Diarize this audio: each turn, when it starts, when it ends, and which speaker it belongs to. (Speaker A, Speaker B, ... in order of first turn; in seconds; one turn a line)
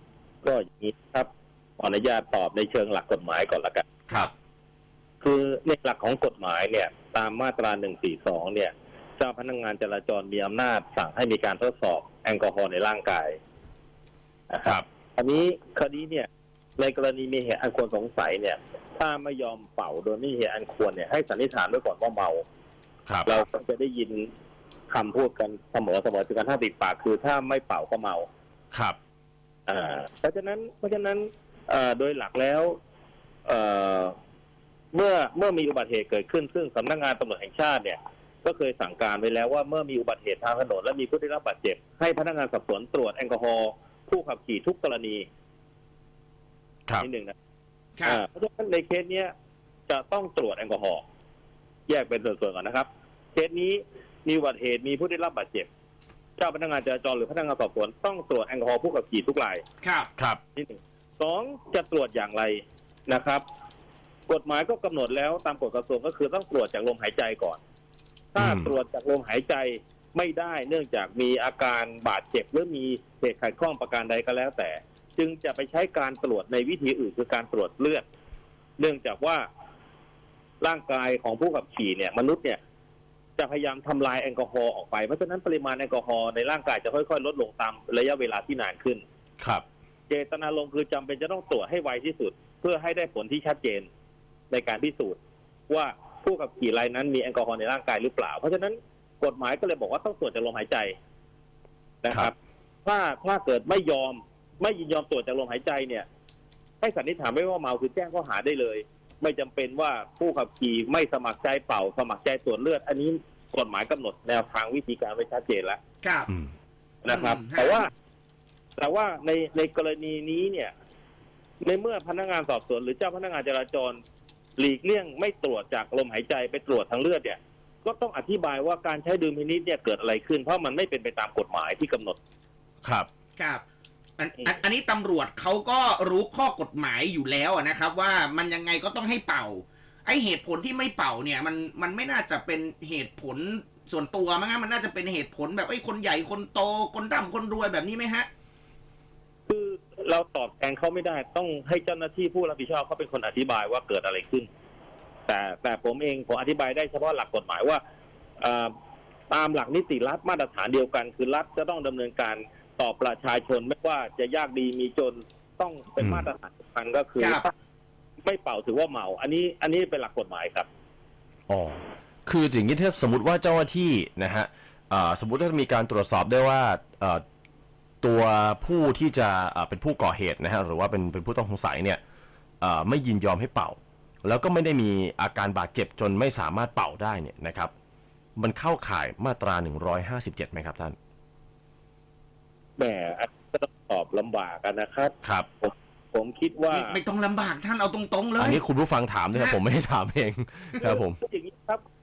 Speaker A: 0.4-3.8
Speaker A: 5.2-13.4
Speaker A: 14.5-16.3
Speaker A: 16.8-22.4
Speaker B: 23.1-23.3
Speaker A: 23.2-24.3
Speaker A: 24.9-28.3
Speaker A: 29.7-32.8
Speaker A: 33.5-34.1
Speaker A: 34.9-45.3
Speaker A: 47.0-47.3
Speaker A: 48.0-49.3
Speaker A: 49.9-51.0
Speaker A: 51.9-55.7
Speaker A: 56.4-59.6
Speaker C: 59.8-60.1
Speaker A: 60.5-63.4
Speaker A: 64.3-67.6
Speaker A: 68.3-78.0
Speaker B: 68.4-68.7
Speaker A: 78.8-79.4
Speaker A: 80.6-82.6
Speaker A: 83.4-89.0
Speaker B: 89.4-89.6
Speaker A: 90.1-93.9
Speaker A: 94.5-95.2
Speaker A: 95.7-100.9
Speaker A: 102.0-106.0
Speaker A: 106.8-115.8
Speaker C: 116.0-116.3
Speaker A: 117.0-117.9
Speaker C: 117.1-117.9
Speaker A: 118.8-120.7
Speaker A: 121.6-124.0
Speaker A: 124.6-132.2
Speaker B: 132.8-133.1
Speaker C: 133.4-133.6
Speaker C: 134.2-148.3
Speaker A: 149.5-154.5
Speaker A: 155.3-157.8
Speaker A: 158.4-158.7
Speaker A: 159.3-167.5
Speaker B: 166.0-166.3
Speaker A: 168.2-170.7
Speaker B: 171.5-177.2
Speaker B: 178.0-182.0
Speaker B: 182.6-187.7
Speaker B: 188.4-190.9
Speaker A: 192.8-197.0
Speaker B: 195.2-195.5
Speaker C: 196.7-198.6
Speaker B: 198.4-201.2
Speaker A: 200.8-201.8